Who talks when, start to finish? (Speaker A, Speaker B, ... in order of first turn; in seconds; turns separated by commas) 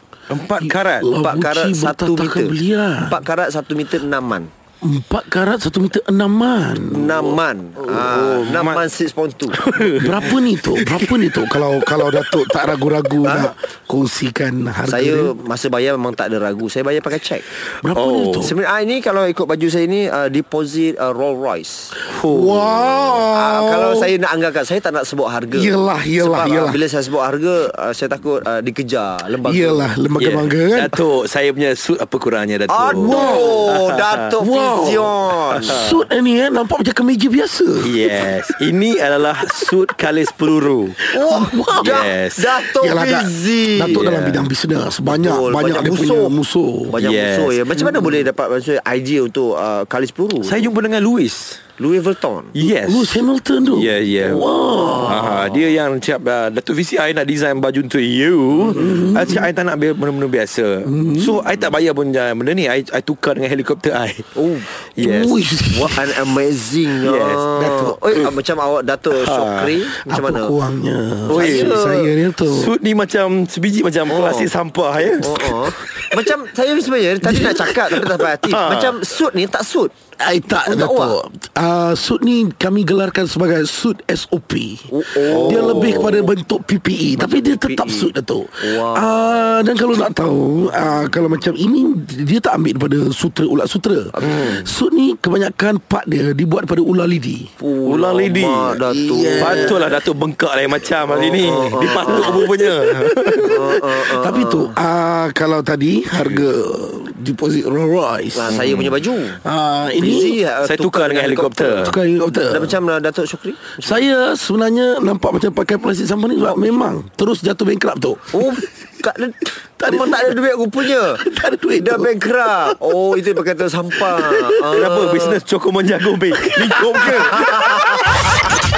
Speaker A: 0.3-1.1, Speaker B: 0.6-3.2, Speaker C: 1.2-4.5, Speaker B: 4.8-7.4, Speaker C: 6.9-9.6, Speaker A: 7.8-8.8, Speaker A: 9.5-11.2, Speaker B: 9.9-15.3, Speaker A: 12.0-12.4, Speaker C: 13.2-13.5, Speaker C: 14.8-17.5, Speaker B: 17.8-18.5, Speaker A: 17.9-18.5, Speaker C: 18.4-21.9, Speaker A: 22.1-23.2, Speaker B: 22.2-24.1, Speaker C: 23.3-29.9, Speaker B: 25.5-26.8, Speaker B: 29.4-31.0, Speaker A: 30.2-34.3, Speaker C: 32.7-35.8, Speaker B: 32.9-33.8, Speaker B: 34.4-38.0, Speaker A: 35.5-36.0, Speaker A: 37.8-41.0, Speaker B: 41.0-47.0, Speaker C: 41.1-44.2, Speaker A: 41.7-42.6, Speaker A: 44.0-44.4, Speaker C: 45.0-46.4, Speaker C: 46.9-50.7, Speaker A: 47.0-47.6, Speaker B: 47.8-48.2, Speaker A: 50.4-51.6, Speaker C: 51.8-52.5, Speaker A: 52.5-64.3, Speaker B: 52.6-55.2, Speaker C: 54.6-55.6, Speaker B: 58.6-59.5, Speaker B: 60.8-61.4, Speaker C: 64.3-64.7, Speaker A: 65.0-65.4, Speaker B: 65.0-66.3, Speaker C: 65.6-70.5, Speaker A: 67.0-68.3, Speaker B: 67.6-68.0, Speaker A: 69.1-69.8, Speaker B: 70.0-72.7, Speaker A: 71.3-71.8, Speaker C: 71.3-72.1, Speaker A: 72.4-76.1, Speaker C: 74.1-74.5, Speaker C: 75.2-79.9, Speaker B: 77.2-77.7, Speaker A: 78.4-79.0, Speaker B: 80.2-97.5, Speaker C: 80.6-81.2, Speaker C: 84.9-86.2, Speaker A: 85.3-86.2, Speaker C: 87.2-89.5, Speaker A: 94.2-94.6, Speaker C: 94.2-94.6, Speaker C: 97.6-99.9, Speaker A: 97.8-98.8, Speaker B: 98.8-100.0, Speaker A: 99.4-103.8, Speaker C: 101.1-102.5, Speaker B: 101.9-110.4, Speaker C: 103.4-104.8, Speaker A: 106.2-106.5, Speaker C: 108.3-109.4, Speaker A: 108.5-108.8, Speaker C: 110.0-114.1, Speaker A: 110.6-112.0, Speaker B: 111.8-112.8, Speaker B: 113.8-118.6, Speaker C: 118.3-121.2, Speaker B: 119.8-120.4, Speaker B: 121.1-122.9, Speaker C: 121.8-125.4, Speaker B: 123.9-124.8, Speaker A: 124.7-128.3, Speaker B: 126.6-126.9, Speaker C: 127.3-128.1